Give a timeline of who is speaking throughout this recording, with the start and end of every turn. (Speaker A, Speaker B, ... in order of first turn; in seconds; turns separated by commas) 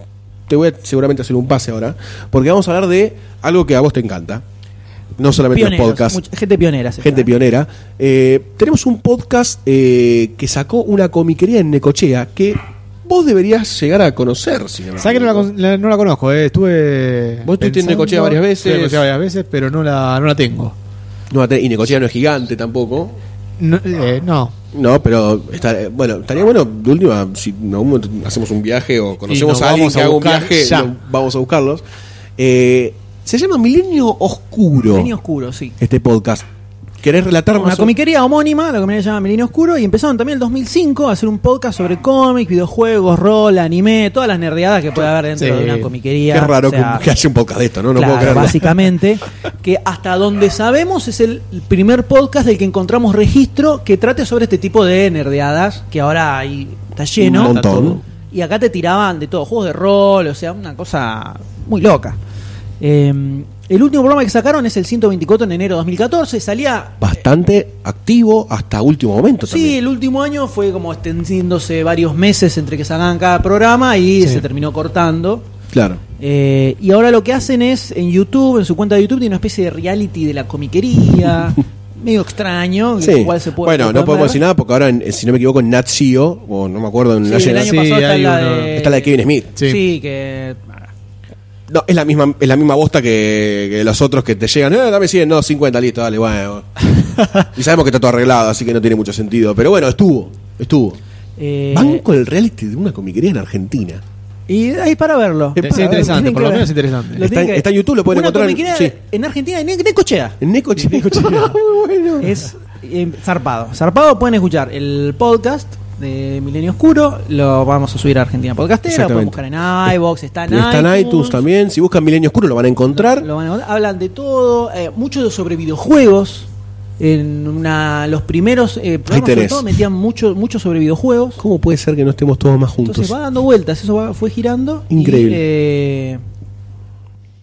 Speaker A: 0.5-4.4, Speaker A: 5.2-6.2, Speaker B: 5.5-7.3, Speaker A: 7.0-15.5, Speaker C: 15.0-20.8, Speaker A: 17.4-19.1, Speaker A: 21.3-23.1, Speaker C: 23.6-24.5, Speaker A: 24.7-31.8, Speaker C: 29.3-30.9, Speaker A: 32.4-35.1, Speaker B: 34.9-35.8, Speaker A: 35.8-36.5, Speaker A: 37.0-37.9, Speaker B: 37.5-47.1, Speaker C: 45.4-45.9, Speaker A: 46.3-48.7, Speaker B: 48.0-62.2, Speaker A: 57.2-58.0, Speaker C: 57.3-58.0, Speaker B: 62.8-67.1, Speaker A: 67.0-69.8, Speaker B: 69.5-75.5, Speaker A: 75.7-76.0, Speaker B: 76.2-84.4, Speaker A: 83.0-87.8, Speaker B: 87.2-90.9, Speaker C: 87.6-88.8, Speaker A: 88.7-89.6, Speaker A: 91.7-96.8, Speaker C: 97.2-97.5, Speaker A: 97.5-101.0, Speaker B: 101.4-102.0, Speaker A: 101.7-104.0, Speaker B: 104.5-111.5, Speaker A: 105.6-106.2, Speaker C: 105.6-107.3, Speaker A: 107.2-108.9, Speaker A: 110.4-112.4, Speaker B: 112.2-121.4, Speaker A: 118.9-119.4, Speaker A: 120.5-123.3, Speaker B: 122.9-126.5, Speaker B: 127.0-131.4, Speaker A: 129.1-129.7, Speaker A: 131.4-133.1, Speaker B: 132.8-136.2, Speaker A: 134.9-135.4